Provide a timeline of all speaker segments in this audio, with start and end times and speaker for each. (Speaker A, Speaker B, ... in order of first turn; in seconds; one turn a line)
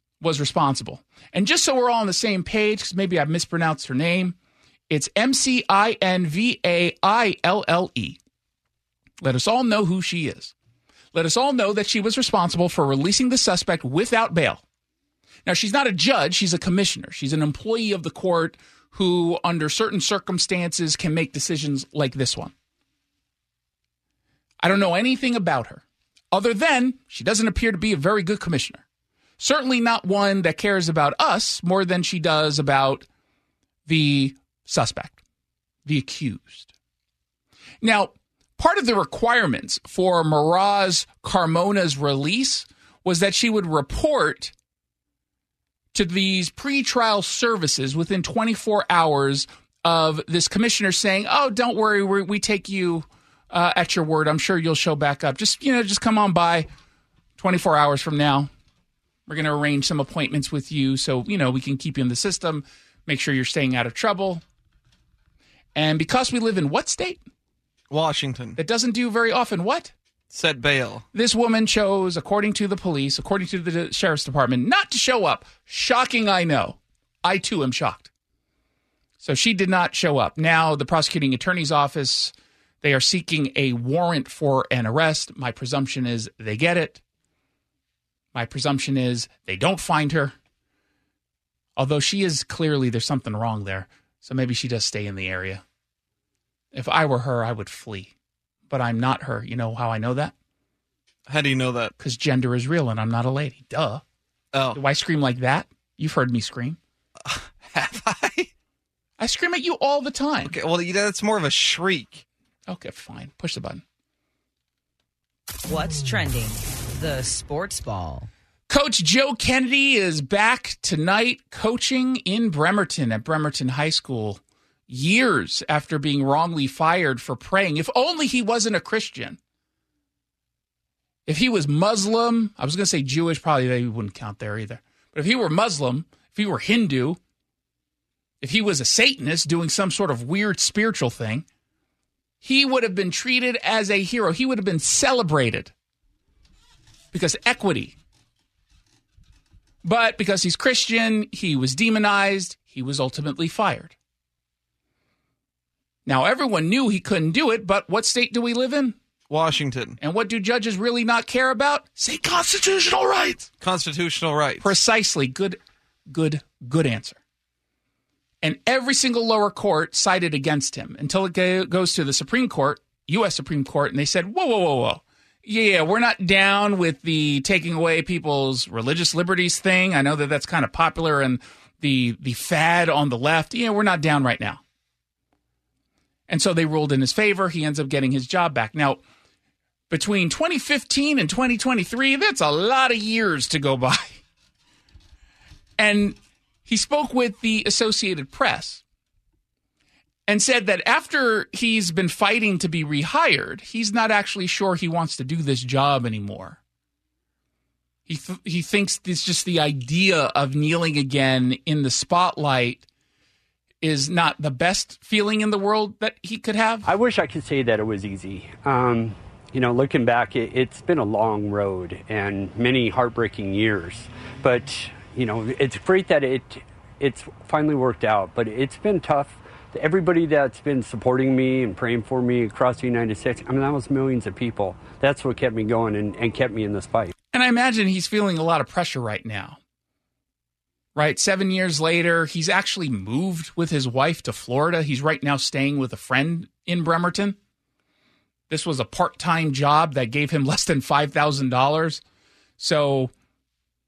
Speaker A: 0.2-4.4
Speaker A: 4.9-8.2
Speaker A: 9.2-10.5
Speaker A: 11.1-14.6
Speaker A: 15.4-22.5
Speaker A: 24.6-28.8
Speaker A: 29.4-33.1
Speaker A: 33.9-35.2
Speaker A: 35.9-36.7
Speaker A: 37.8-44.5
Speaker A: 45.9-56.7
Speaker A: 57.4-58.5
Speaker A: 59.3-64.4
Speaker A: 65.8-67.2
Speaker B: 67.9-68.6
Speaker A: 68.6-69.9
Speaker B: 70.3-71.0
Speaker A: 71.1-78.1
Speaker A: 79.2-87.0
Speaker A: 88.3-90.3
Speaker A: 91.8-95.6
Speaker A: 96.7-98.1
Speaker A: 98.7-100.3
Speaker B: 101.3-101.9
Speaker A: 102.0-104.0
Speaker B: 104.5-104.8
Speaker A: 104.7-106.8
Speaker B: 107.3-108.5
Speaker A: 109.2-110.5
Speaker B: 110.5-112.2
Speaker A: 112.7-113.8
Speaker C: 115.7-118.3
Speaker A: 118.7-129.4
Speaker A: 131.3-137.2
Speaker A: 138.4-141.4
Speaker A: 142.4-145.7
Speaker A: 147.1-147.9
Speaker A: 149.8-153.9
Speaker A: 156.1-159.0
Speaker B: 159.3-160.0
Speaker A: 160.0-163.5
Speaker B: 163.6-164.7
Speaker A: 164.6-167.2
Speaker A: 168.4-184.6
Speaker A: 186.3-189.0
Speaker A: 189.9-194.2
Speaker A: 195.8-198.8
Speaker A: 200.3-206.6
Speaker A: 208.1-212.8
Speaker A: 213.8-216.9
Speaker D: 216.8-237.1
Speaker A: 237.3-239.6
Speaker A: 241.0-247.4
Speaker A: 248.5-252.0
Speaker A: 252.6-253.1